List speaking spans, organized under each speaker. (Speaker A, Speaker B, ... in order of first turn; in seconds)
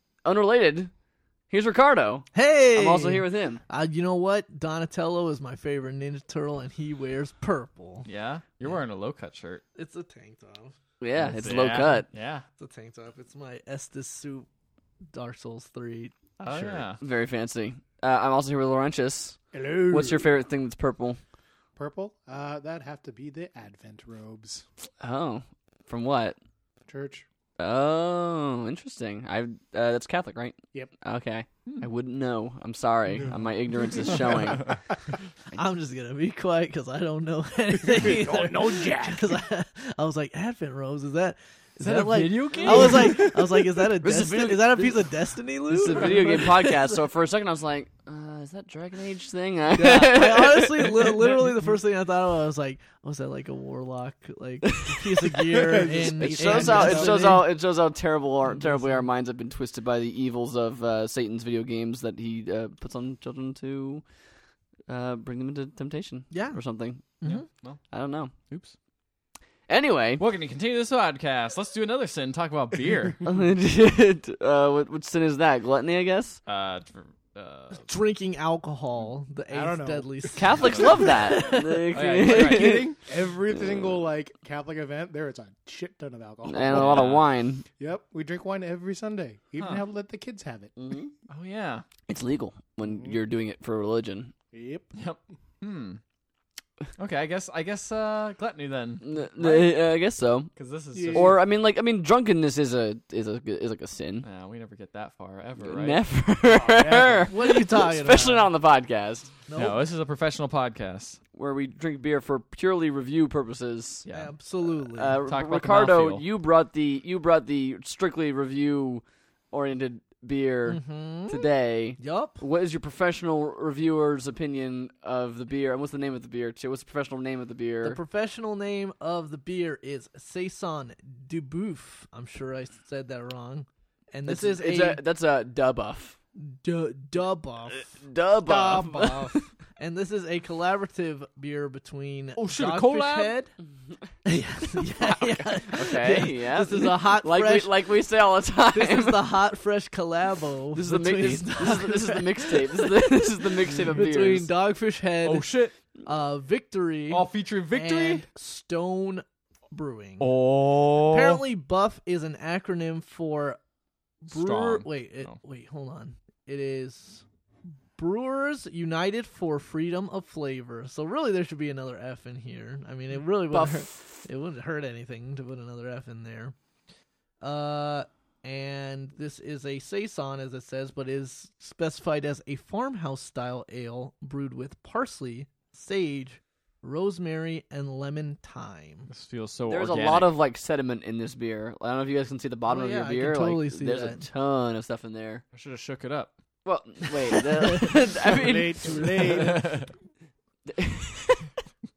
Speaker A: 0.2-0.9, 1.5-3.6, 11.0-12.1, 17.0-21.2, 25.0-26.4, 27.6-34.8, 42.6-43.0, 44.0-45.1, 45.6-51.4, 54.6-55.3, 56.0-64.0, 64.9-67.2, 67.9-68.3, 69.7-70.2, 73.2-76.4, 80.3-84.0, 86.5-87.7, 90.8-91.1, 92.1-94.3, 99.0-100.5, 101.1-104.2, 105.6-109.3, 111.3-114.0, 114.9-128.0, 134.3-136.2, 137.8-139.5, 144.7-149.3, 150.8-154.5, 173.5-174.2, 189.7-195.4, 196.7-199.4, 200.7-201.5
Speaker B: 2.3-8.1, 9.8-10.8, 12.6-14.5, 15.1-16.8, 35.5-46.9, 49.8-57.5, 66.3-66.6, 67.2-67.5, 77.7-81.9, 107.3-108.5, 109.5-109.8, 114.1-115.2, 120.7-122.4, 127.8-135.0, 136.4-137.9, 138.5-143.5, 144.2-147.9, 148.7-155.5, 156.1-163.6, 164.2-167.2, 168.0-176.6, 177.4-189.1, 192.7-194.2, 197.5-198.0
Speaker C: 8.1-9.6, 11.2-12.4, 16.4-17.0, 41.8-43.9, 67.2-67.8, 68.5-68.8, 70.2-73.2, 76.5-77.9, 80.6-81.0, 81.9-82.9, 86.7-87.2, 89.6-89.8, 91.3-91.9, 94.9-96.0, 97.0-99.7, 100.6-101.4, 104.2-106.0, 109.6-111.2, 114.0-114.3, 115.3-116.2, 142.4-143.3, 155.2-155.7, 157.1-158.2, 160.2-161.4, 164.3-165.4, 189.1-190.3, 195.5-196.3, 199.3-199.9
Speaker D: 19.5-20.3, 21.8-24.6, 26.9-27.3, 33.9-34.8, 37.8-39.4, 55.5-57.4, 79.5-81.0, 82.2-87.2, 87.8-90.7, 92.9-93.2, 94.5-94.9, 100.9-101.4, 106.5-107.3, 198.2-199.8